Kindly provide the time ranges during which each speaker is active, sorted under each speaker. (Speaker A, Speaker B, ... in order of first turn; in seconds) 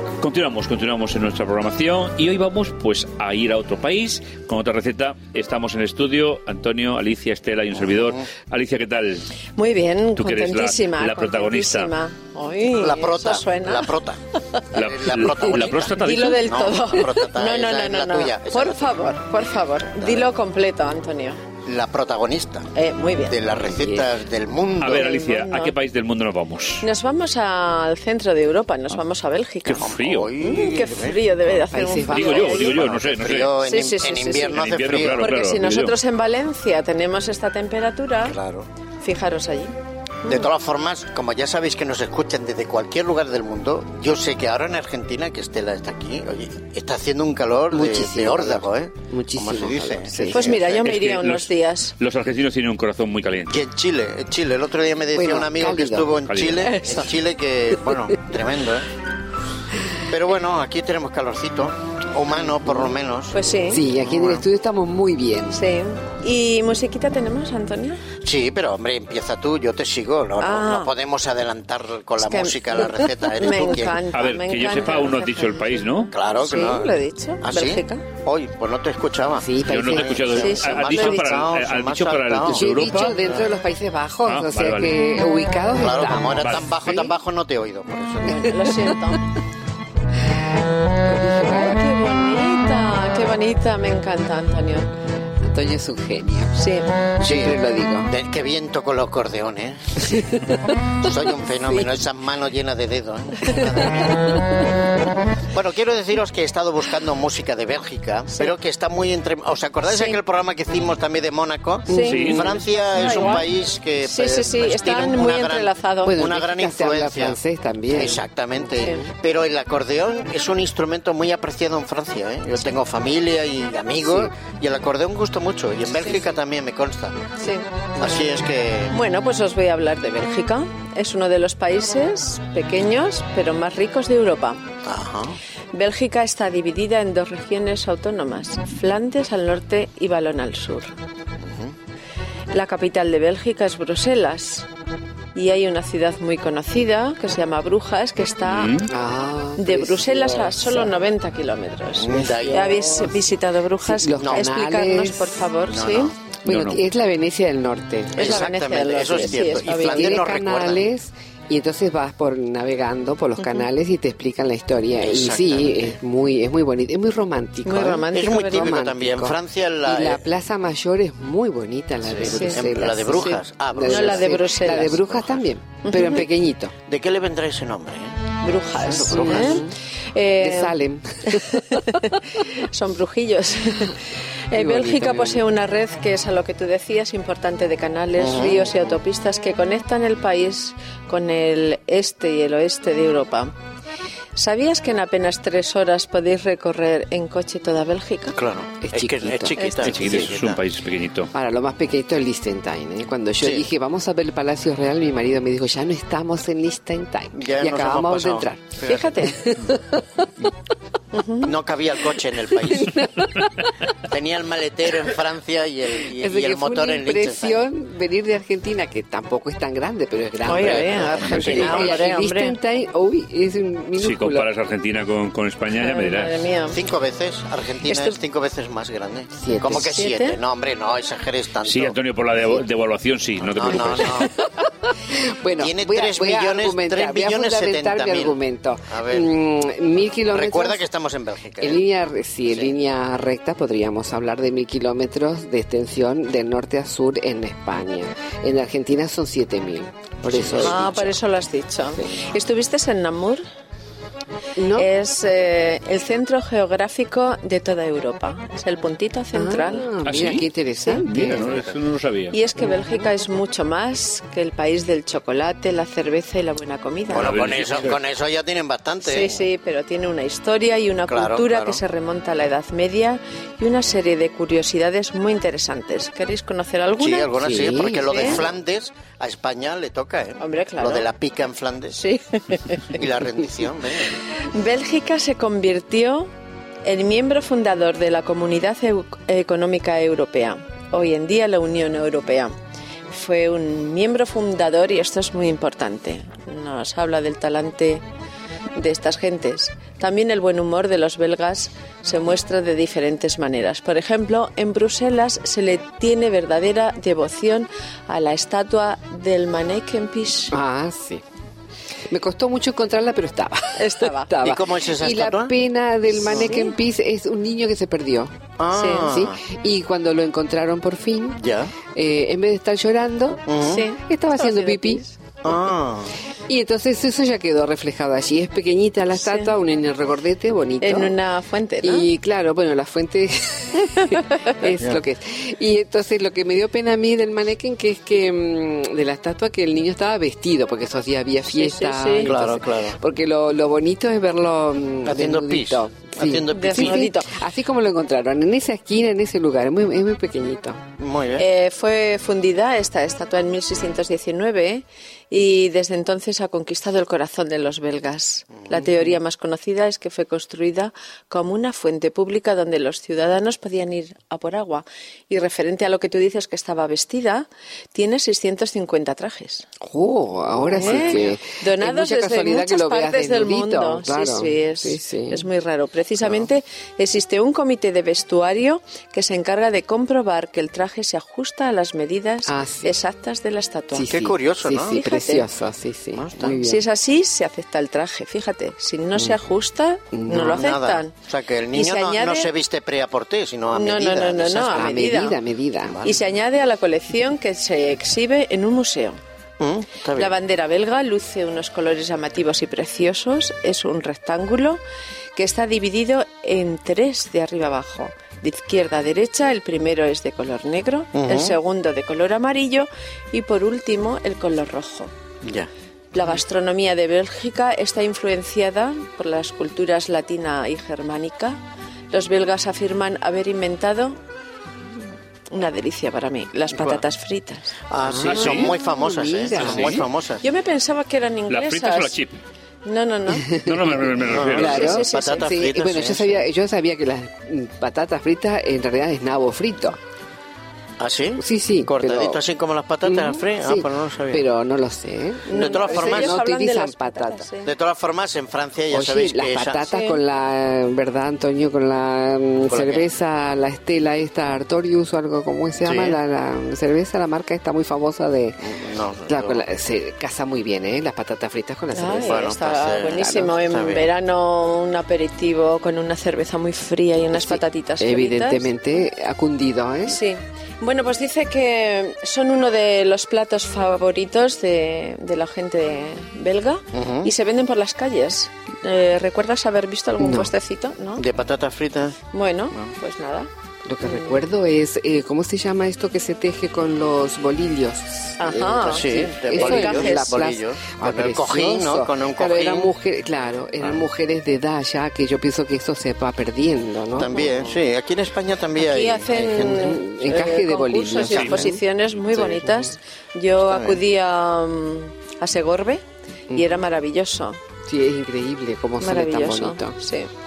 Speaker A: 0.2-9.3, 10.2-11.9, 14.7-16.5, 24.8-26.8, 29.6-30.3, 32.1-33.5, 34.4-35.9, 50.8-53.6, 56.2-56.8, 74.1-76.1, 79.6-83.2, 84.2-85.0, 86.4-86.7, 112.0-112.5, 148.4-148.9, 156.4-156.8, 199.7-201.3, 221.2-222.0, 224.0-226.4, 231.6-234.2, 260.0-260.5, 261.0-262.4, 267.1-268.0, 428.3-428.7, 429.5-430.0, 431.5-432.4, 433.6-435.0, 501.2-501.6
Speaker B: 9.6-13.9, 15.6-21.4, 22.7-23.4, 24.9-25.8, 26.8-32.8, 33.6-38.4, 39.0-40.5, 50.2-52.0, 56.6-57.1, 63.3-63.9, 65.5-68.0, 70.4-70.9, 72.2-75.9, 76.4-78.0, 80.4-81.4, 88.2-89.2, 91.5-94.9, 96.5-96.9, 109.8-110.2, 111.9-113.5, 114.0-116.2, 127.4-128.3, 128.9-134.6, 135.7-140.9, 142.5-144.7, 145.3-148.8, 149.6-156.1, 158.1-160.3, 163.4-163.7, 167.6-168.7, 172.2-172.6, 173.2-175.0, 175.8-176.3, 178.4-180.8, 181.3-193.5, 194.3-198.3, 208.8-209.4, 211.1-211.5, 220.4-222.6, 225.7-226.8, 227.8-228.2, 229.7-230.4, 250.5-253.4, 254.7-259.9, 262.3-267.4, 269.0-277.3, 277.9-278.4, 280.4-281.1, 281.9-283.0, 284.4-286.3, 286.8-292.5, 293.1-298.0, 298.8-310.5, 313.8-314.3, 316.3-316.7, 318.7-319.2, 323.6-325.1, 329.1-329.5, 330.8-332.1, 341.5-342.3, 346.5-347.3, 351.4-369.7, 370.7-384.1, 384.9-385.5, 386.6-391.1, 391.7-392.5, 393.7-395.4, 396.0-399.2, 400.1-404.8, 405.3-415.1, 416.1-421.6, 422.1-424.2, 425.5-427.7, 430.4-432.2, 432.8-433.5, 434.6-435.5, 445.4-447.7, 449.9-450.2, 461.9-468.7, 470.0-481.2, 482.3-483.5, 484.0-484.3, 488.4-490.3, 498.8-507.6, 509.0-510.3
Speaker C: 12.8-14.2, 14.7-19.1, 20.0-20.3, 21.6-22.7, 23.3-25.2, 29.7-31.6, 32.1-35.2, 38.2-38.7, 40.2-51.0, 53.5-58.9, 60.0-63.4, 64.0-64.4, 68.2-74.0, 76.1-83.4, 85.8-88.7, 97.2-100.2, 101.0-104.4, 105.5-127.2, 128.0-128.9, 134.8-135.4, 141.5-141.7, 151.9-153.0, 154.2-154.5, 155.7-156.1, 158.2-160.9, 165.0-165.9, 168.1-170.2, 172.0-175.4, 176.9-179.6, 188.2-188.8, 198.3-200.6, 203.4-203.7, 207.3-209.1, 211.4-213.3, 213.9-217.7, 220.6-221.9, 226.7-232.0, 233.4-234.3, 235.6-238.4, 238.9-239.3, 240.3-241.8, 250.2-250.8, 267.1-269.4, 271.1-271.8, 277.0-282.0, 282.9-284.2, 314.4-315.5, 316.1-316.6, 318.6-319.4, 321.4-321.7, 323.5-323.8, 325.4-326.1, 342.2-343.0, 345.0-347.1, 351.0-351.4, 370.8-371.3, 384.1-385.0, 386.1-386.6, 390.3-395.0, 399.6-400.3, 411.1-411.6, 426.8-427.0, 427.9-430.4, 434.2-436.4, 441.0-444.4, 445.5-446.4, 447.6-449.9, 452.6-453.1, 455.8-456.2, 458.6-459.6, 462.2-464.1, 476.9-477.3, 481.2-482.2, 488.8-492.9, 497.1-499.9, 503.6-504.0
Speaker D: 23.5-24.2, 31.7-32.5, 47.7-50.7, 55.1-56.1, 63.7-65.6, 79.4-80.4, 82.5-87.1, 91.0-91.8, 95.4-96.6, 97.2-98.1, 100.0-100.5, 101.6-102.0, 116.0-118.2, 148.9-151.0, 152.1-153.1, 153.8-155.5, 156.4-158.4, 159.1-176.7, 179.1-179.7, 180.4-181.8, 184.5-185.4, 198.8-200.2, 201.3-210.2, 212.7-213.4, 216.0-224.5, 229.4-229.9, 235.0-240.8, 241.6-251.2, 254.6-254.9, 259.3-261.6, 277.4-278.4, 310.5-311.2, 312.1-318.3, 319.1-321.4, 321.9-325.1, 326.5-331.2, 331.8-350.8, 369.8-375.5, 382.4-382.9, 383.9-386.8, 390.1-390.6, 394.6-396.1, 428.0-430.0, 434.4-440.0, 441.4-442.4, 443.0-447.5, 448.9-458.6, 459.2-463.5, 467.3-470.2, 480.2-480.5, 483.9-497.8, 499.6-501.8, 502.3-502.8, 506.5-506.8, 507.9-509.9